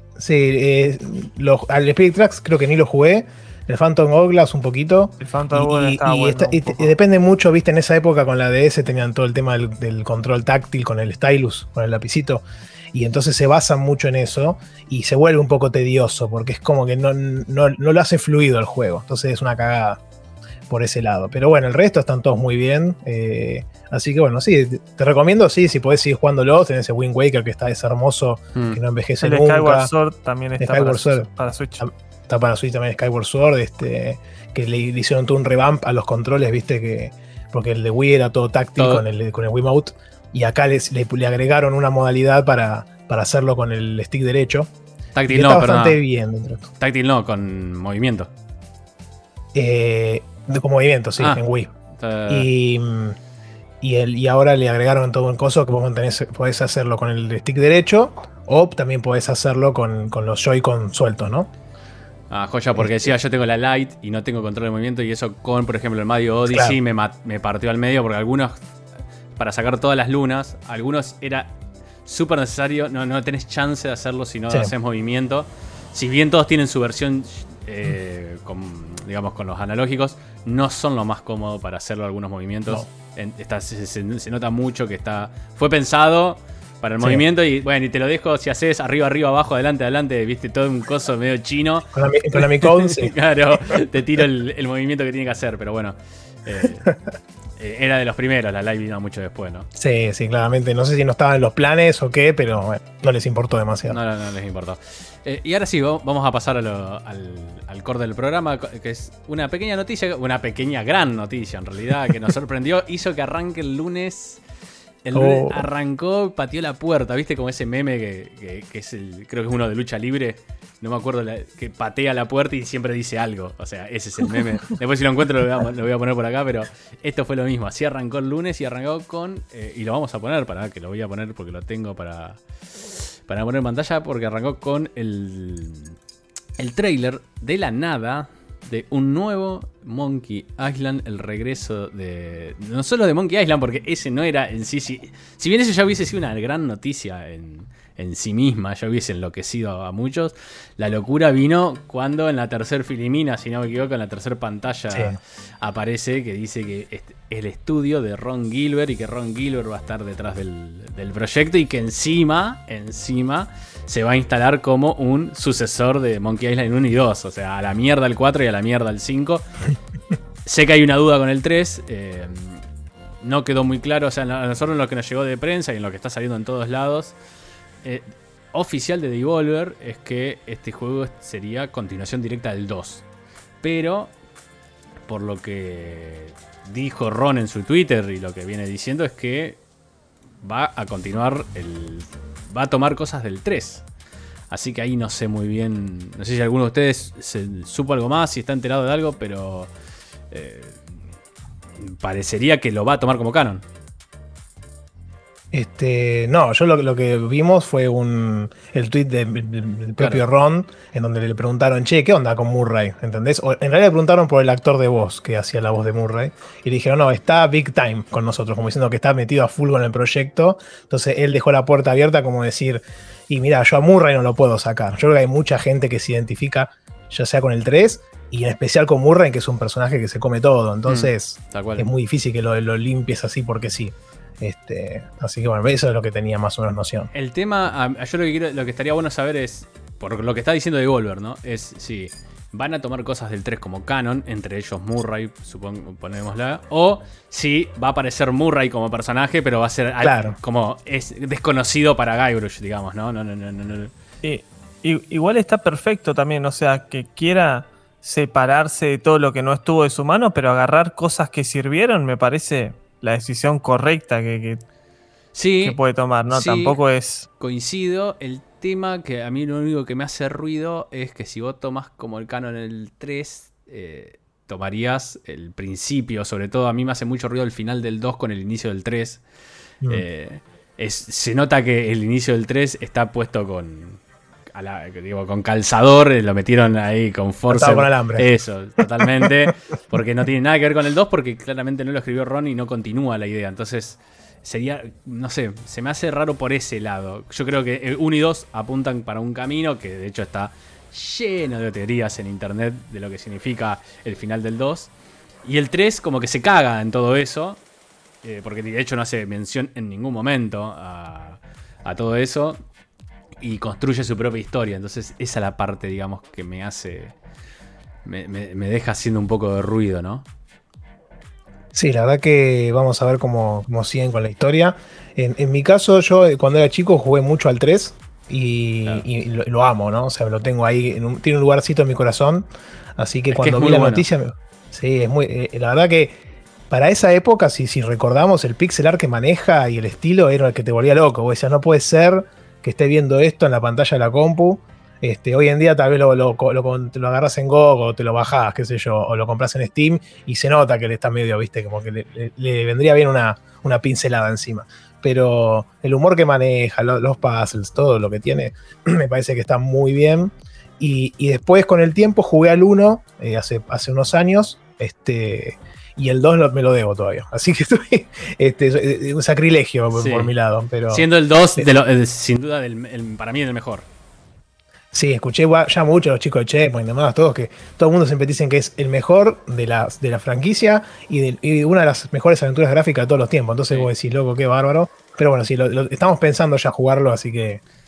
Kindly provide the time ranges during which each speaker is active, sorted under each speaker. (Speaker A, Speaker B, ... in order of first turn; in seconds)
Speaker A: 0.2-20.0, 20.7-29.9, 30.6-31.3, 31.8-44.7, 45.3-46.7, 49.5-51.7, 52.3-53.2, 53.8-61.5, 62.8-63.1, 66.5-66.8, 91.9-93.8, 99.8-104.0, 115.2-115.6, 154.9-155.2, 205.5-237.1, 250.0-250.3, 287.5-288.3, 289.0-289.3, 321.7-336.2, 336.7-371.1, 374.9-387.6
Speaker B: 5.2-6.9, 29.2-31.9, 254.2-264.6, 265.6-267.3
Speaker C: 28.6-28.8, 38.8-39.0, 45.1-46.0, 46.8-48.3, 51.2-52.5, 62.3-68.6, 69.4-71.5, 72.0-96.9, 97.6-99.7, 103.9-114.4, 115.0-136.0, 136.6-169.4, 170.5-172.6, 173.2-177.2, 177.8-183.1, 183.6-184.1, 185.1-189.6, 190.4-193.8, 194.5-199.7, 200.3-201.0, 201.8-203.6, 210.0-210.2, 230.9-231.9, 237.1-253.9, 265.4-266.8, 267.4-279.2, 279.9-284.0, 284.5-304.9, 305.4-307.6, 308.2-312.6, 313.4-317.1, 318.1-320.3, 333.3-334.1, 369.9-370.3, 370.9-373.9